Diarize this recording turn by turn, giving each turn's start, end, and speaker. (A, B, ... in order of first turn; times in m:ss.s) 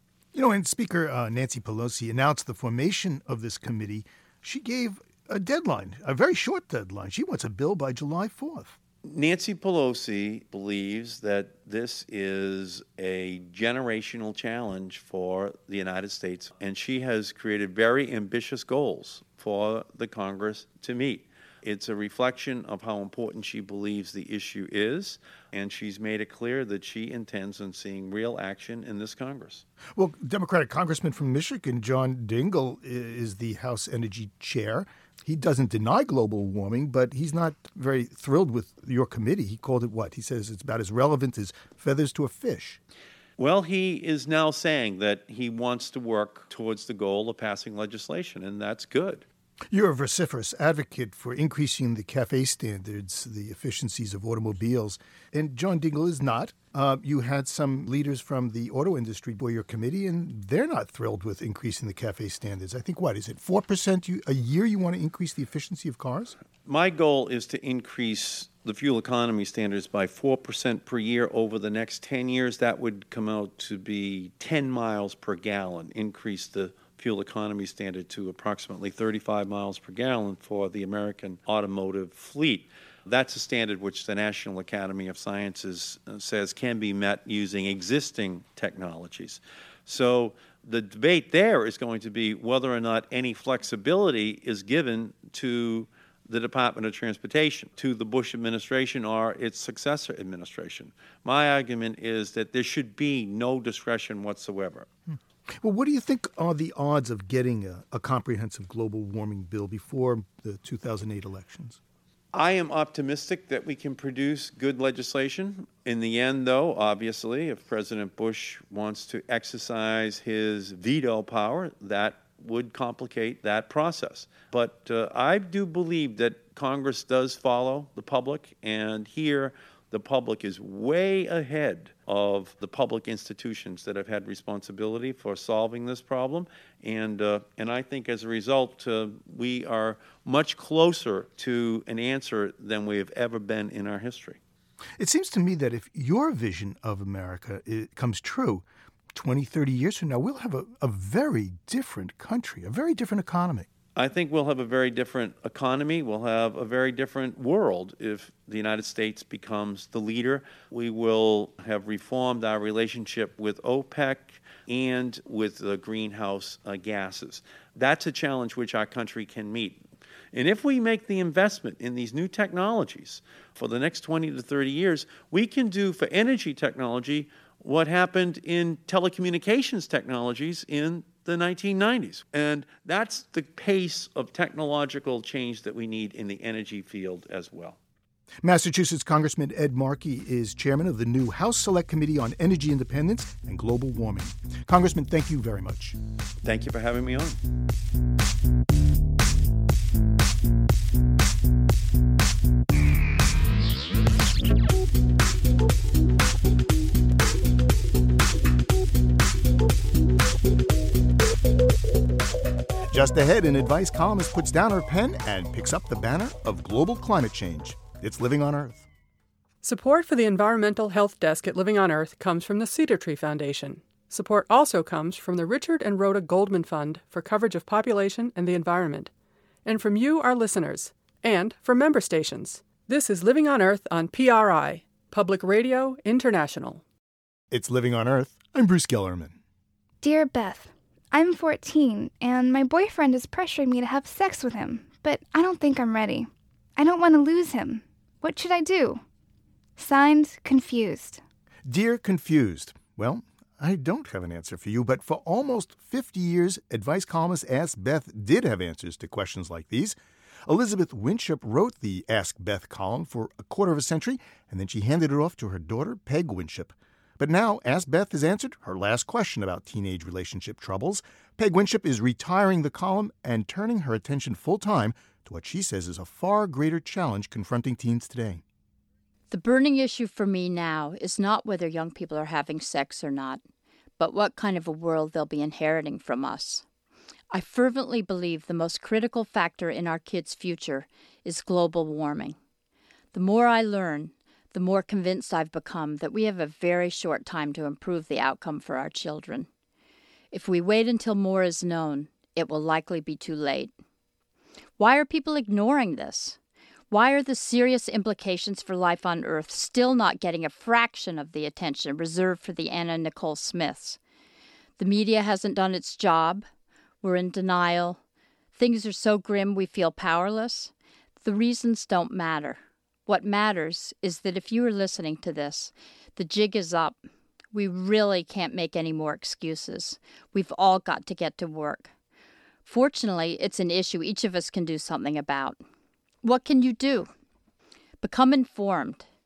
0:00.3-0:08.8 A
0:09.0-0:29.6 B
0:29.9-0:42.8 A
0:43.4-0:49.2 B
0:49.7-1:06.4 A
1:06.6-1:44.9 B
1:45.1-1:51.8 A
1:52.3-2:24.4 B
2:25.0-2:33.7 A
2:34.0-2:49.8 B
2:50.3-3:07.8 B
3:08.4-3:16.0 A
3:16.4-3:17.4 B
3:32.9-3:38.9 A
3:39.6-3:49.1 C
3:49.6-3:56.8 C
3:57.5-3:59.4 A
4:00.0-4:09.0 D
4:09.8-4:11.2 D
4:11.6-4:38.4 A
4:39.3-4:43.4 E
4:44.0-4:46.6 E
4:47.3-4:52.4 E
4:53.1-4:59.5 E
5:00.3-5:03.7 E
5:04.8-5:06.4 E
5:06.9-5:14.0 E
5:14.8-5:16.5 E
5:17.0-5:18.0 E
5:18.6-5:20.7 E
5:21.2-5:27.0 E
5:27.5-5:31.9 E
5:32.6-5:35.6 E
5:36.2-5:37.1 E
5:38.0-5:39.0 E